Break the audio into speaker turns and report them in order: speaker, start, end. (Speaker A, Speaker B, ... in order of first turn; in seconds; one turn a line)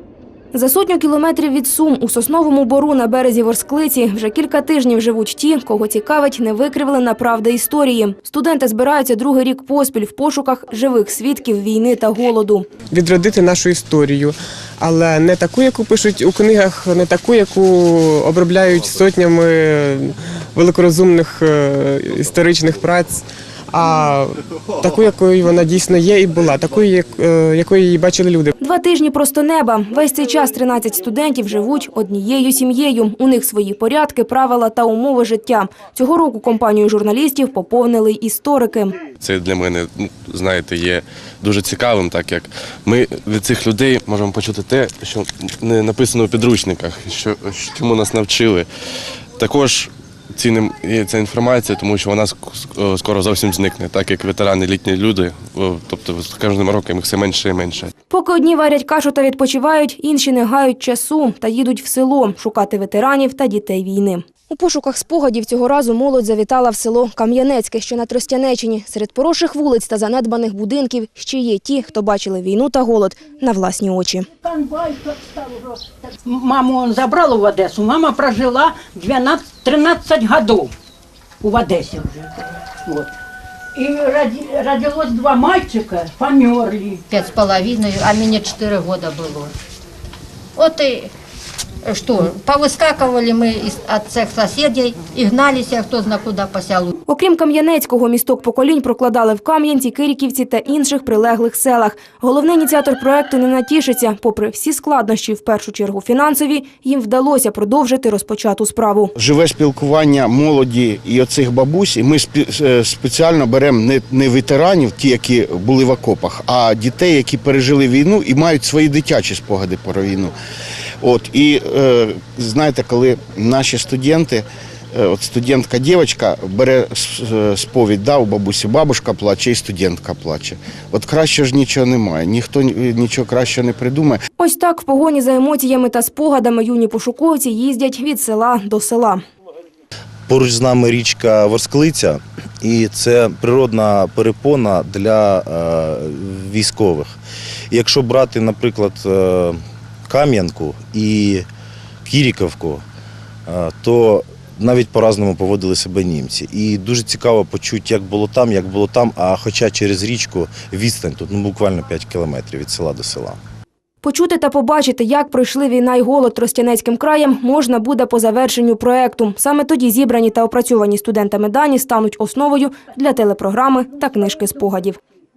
Speaker A: 0.5-12.7
Speaker B: 12.9-28.5
Speaker A: 28.6-39.0
Speaker C: 39.2-48.7
Speaker C: 49.4-57.9
Speaker A: 58.1-74.3
Speaker D: 74.4-80.7
Speaker D: 81.4-83.1
Speaker D: 83.7-87.0
Speaker E: 87.1-89.5
Speaker E: 90.5-91.1
Speaker E: 91.8-96.9
Speaker A: 97.1-109.1
Speaker F: 109.2-120.3
Speaker F: 121.0-134.2
Speaker A: 134.4-139.2
Speaker G: 140.3-147.2
Speaker G: 147.7-151.5
Speaker G: 152.0-152.8
Speaker G: 153.5-163.4
Speaker A: 164.0-175.0